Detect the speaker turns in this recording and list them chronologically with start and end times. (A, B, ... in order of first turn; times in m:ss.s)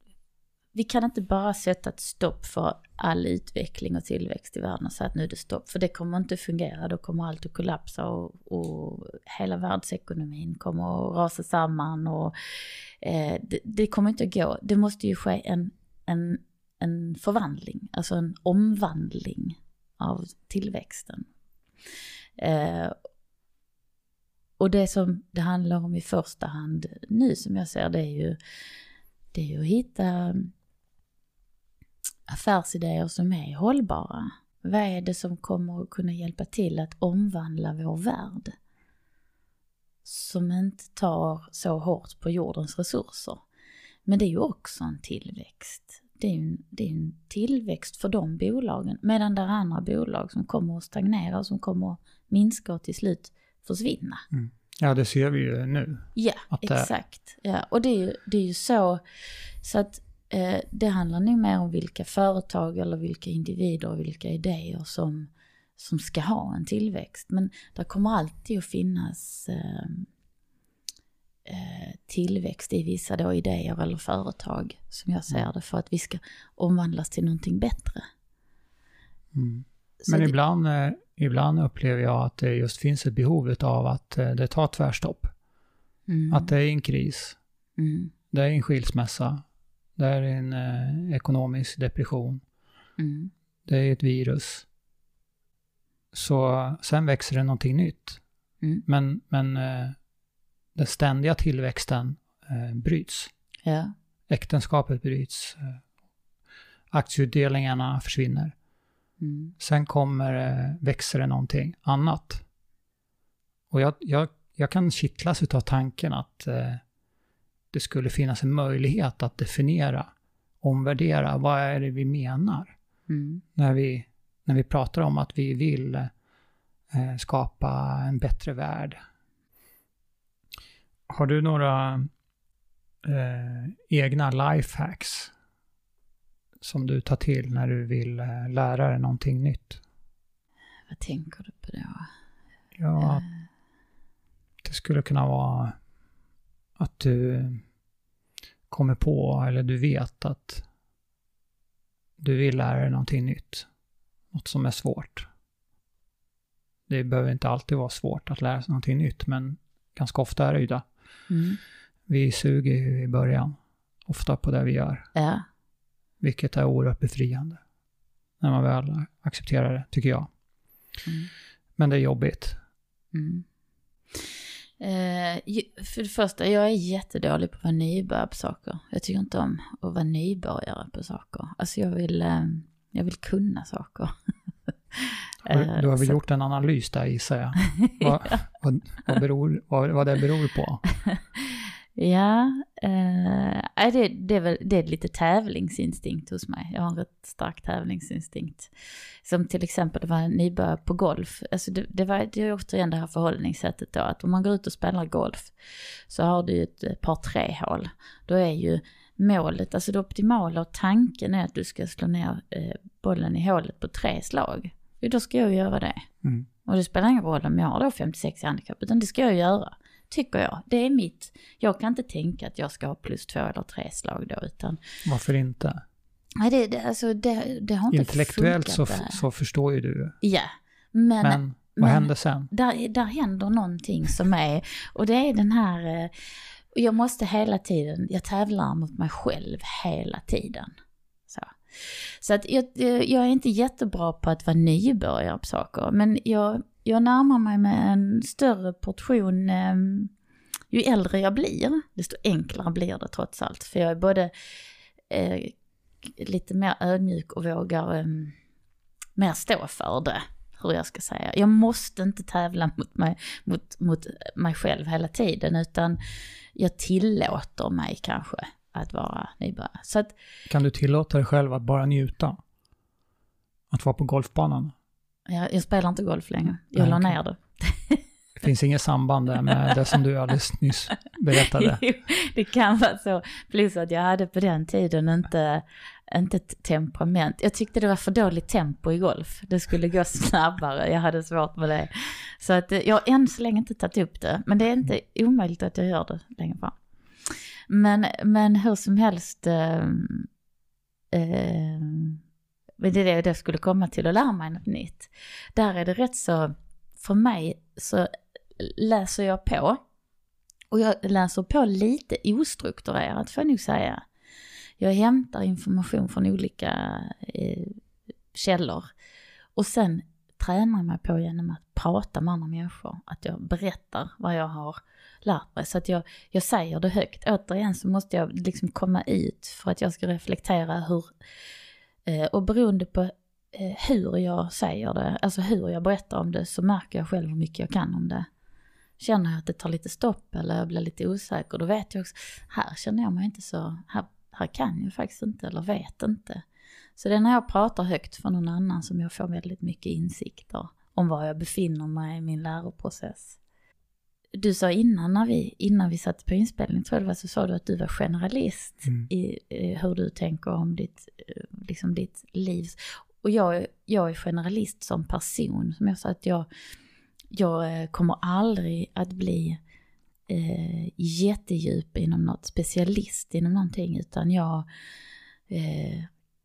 0:00.7-0:21.3 A
0:22.4-0:22.9 A
0:24.6-0:28.4 A
0:29.3-0:30.5 A
0:32.3-0:38.5 A
0:40.0-0:43.4 A
0:44.0-0:54.2 A
0:54.3-0:56.9 B
0:56.2-0:59.0 A
0:59.6-1:10.1 A
1:11.4-1:18.0 A
1:19.3-1:25.3 B
1:20.0-1:20.3 A
1:26.1-1:26.5 A
1:26.3-1:27.4 B
1:27.8-1:28.1 A
1:28.3-1:29.4 B
1:30.0-1:32.4 B
1:33.0-1:33.3 A
1:33.6-1:34.6 B
1:36.1-1:38.2 B
1:38.9-1:40.0 B
1:40.7-1:43.3 B
1:43.6-1:43.9 A
1:44.3-1:45.8 B
1:46.9-1:48.5 B
1:49.2-1:49.5 A
1:49.6-1:52.4 B
1:53.7-1:56.8 B
1:57.7-2:00.1 B
2:00.6-2:02.7 B
2:03.1-2:03.4 A
2:03.6-2:06.1 B
2:06.9-2:09.0 B
2:11.1-2:12.1 B
2:13.0-2:15.3 B
2:16.6-2:19.8 B
2:20.9-2:22.1 A
2:22.7-2:23.2 B
2:23.0-2:23.3 A
2:24.6-2:25.8 B
2:26.8-2:27.6 B
2:28.7-2:30.6 B
2:32.2-2:33.7 B
2:34.3-2:35.3 B
2:36.9-2:40.8 B
2:41.3-2:41.6 A
2:42.1-2:45.1 B
2:45.1-2:45.4 A
2:46.2-2:47.6 B
2:48.4-2:50.3 B
2:51.0-2:51.3 A
2:51.8-2:52.6 B
2:53.1-2:53.4 A
2:54.8-3:04.1 A
3:04.9-3:06.2 A
3:05.4-3:10.8 B
3:07.8-3:08.4 A
3:11.5-3:18.7 A
3:19.2-3:25.5 A
3:26.1-3:36.1 A
3:36.6-3:44.8 A
3:45.0-3:45.8 B
3:46.4-3:49.2 A
3:47.9-3:50.2 B
3:50.2-3:56.1 A
3:51.2-3:52.5 B
3:56.7-4:00.7 A
4:01.3-4:10.1 A
4:10.7-4:14.3 A
4:15.1-4:18.4 A
4:19.2-4:26.0 A
4:26.5-4:30.1 A
4:30.5-4:32.4 B
4:33.7-4:34.7 B
4:35.3-4:38.0 A
4:36.8-4:37.2 B
4:38.4-4:41.8 B
4:39.7-4:40.0 A
4:41.3-5:00.3 A
5:01.1-5:02.2 A
5:02.8-5:09.8 A
5:10.7-5:14.0 A
5:14.8-5:17.8 A
5:18.3-5:18.9 A
5:19.6-5:31.1 A
5:32.0-5:38.3 A
5:39.0-5:46.4 A
5:47.0-5:53.4 A
5:54.3-6:06.5 A
6:07.3-6:09.6 A
6:10.3-6:14.7 A
6:15.5-6:16.1 A